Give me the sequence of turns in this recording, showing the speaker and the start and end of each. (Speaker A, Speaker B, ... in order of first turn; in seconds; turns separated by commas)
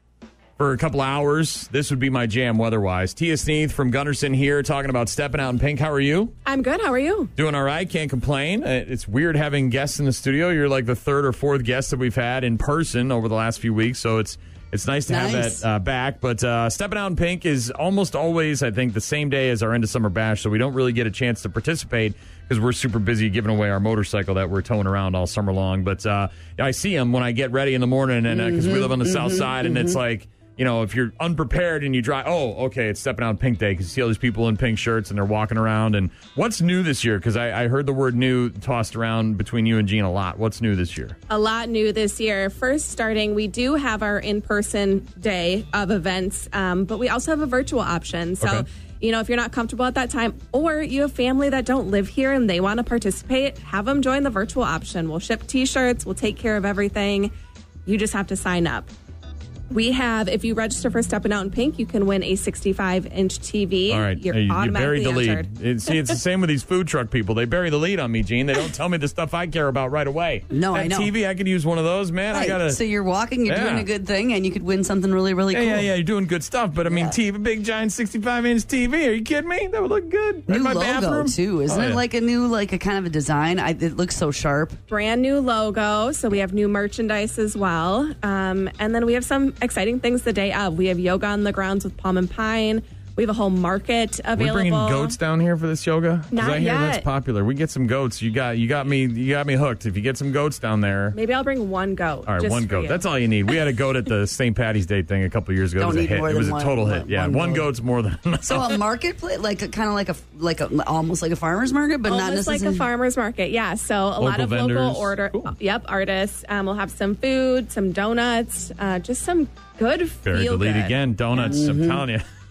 Speaker A: 0.6-6.3, Speaker B: 6.4-7.3, Speaker A: 7.3-41.2, Speaker C: 15.1-15.6, Speaker C: 28.3-30.0, Speaker B: 41.3-57.3, Speaker B: 57.9-58.9, Speaker B: 59.7-65.5, Speaker A: 63.9-72.8, Speaker C: 70.5-71.1, Speaker C: 72.3-75.9, Speaker A: 73.4-73.9, Speaker A: 75.5-82.0, Speaker C: 76.8-77.2, Speaker C: 80.5-84.8, Speaker B: 84.9-95.2, Speaker A: 94.3-101.2, Speaker B: 96.3-97.0, Speaker B: 101.1-103.0, Speaker A: 102.2-108.8, Speaker C: 105.8-107.7, Speaker C: 108.5-112.8, Speaker B: 112.0-120.9, Speaker A: 114.2-115.5, Speaker A: 120.2-122.2, Speaker C: 121.3-122.0